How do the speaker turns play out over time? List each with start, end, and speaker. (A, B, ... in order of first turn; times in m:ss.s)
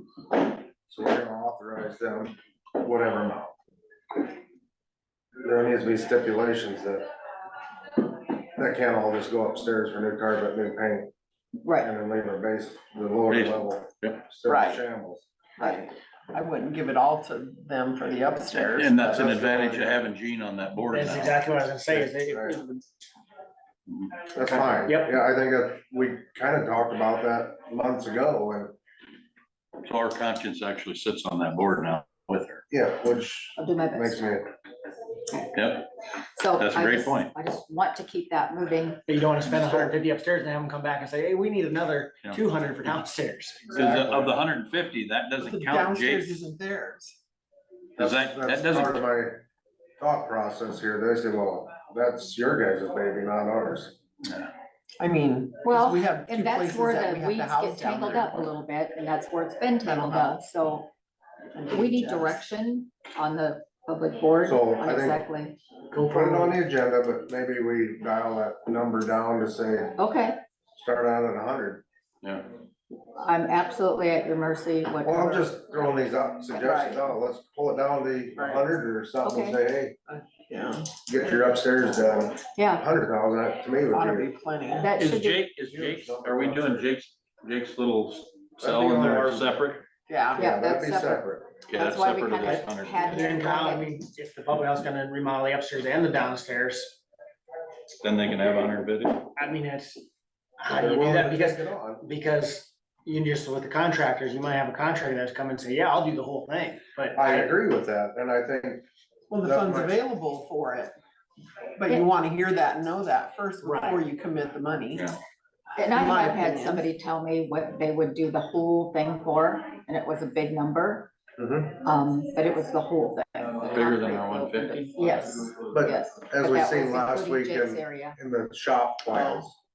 0:00.9-0:03.5 A
0:05.4-0:07.1 A
0:08.6-0:11.1 A
0:11.6-0:11.9 B
0:11.8-0:15.3 A
0:13.3-0:14.3 C
0:14.5-0:14.8 D
0:15.6-0:19.5 D
0:18.8-0:21.6 C
0:19.0-0:20.0 A
0:20.9-0:22.8 E
0:21.9-0:22.6 A
0:23.9-0:24.3 C
0:24.3-0:28.8 A
0:24.9-0:25.2 E
0:29.8-0:32.6 C
0:32.7-0:34.5 A
0:33.6-0:34.4 B
0:35.3-0:35.6 B
0:35.5-0:35.9 C
0:36.4-0:39.0 B
0:36.6-0:37.3 C
0:39.1-0:43.7 E
0:43.7-0:44.4 A
0:43.7-0:46.5 C
0:45.4-0:47.2 D
0:48.0-0:49.0 C
0:48.0-0:49.4 A
0:50.0-0:54.0 A
0:55.0-0:58.5 D
0:55.6-1:00.9 B
0:59.8-1:00.4 D
1:01.5-1:02.4 D
1:01.7-1:05.6 B
1:04.4-1:05.2 A
1:05.9-1:06.6 E
1:06.0-1:10.0 A
1:10.0-1:10.4 B
1:10.8-1:11.8 A
1:13.2-1:15.7 B
1:15.0-1:20.0 A
1:16.6-1:17.1 D
1:18.4-1:18.7 D
1:19.2-1:19.6 B
1:20.1-1:21.0 D
1:21.1-1:24.3 A
1:22.6-1:22.8 B
1:23.9-1:24.9 D
1:24.8-1:25.4 B
1:25.0-1:29.9 C
1:25.7-1:26.8 A
1:28.6-1:29.5 A
1:30.1-1:30.5 D
1:30.4-1:31.6 A
1:30.4-1:33.9 B
1:31.7-1:33.1 C
1:32.4-1:37.0 E
1:38.0-1:39.3 C
1:39.4-1:40.0 E
1:40.6-1:47.5 E
1:40.7-1:42.0 A
1:47.2-1:48.8 A
1:49.3-1:50.9 D
1:49.4-1:50.0 A
1:51.8-1:55.1 D
1:53.6-1:54.0 E
1:55.8-2:01.1 B
1:55.9-1:56.9 D
2:01.4-2:01.7 A
2:01.8-2:08.2 B
2:03.7-2:04.9 C
2:05.7-2:09.6 A
2:09.1-2:09.4 D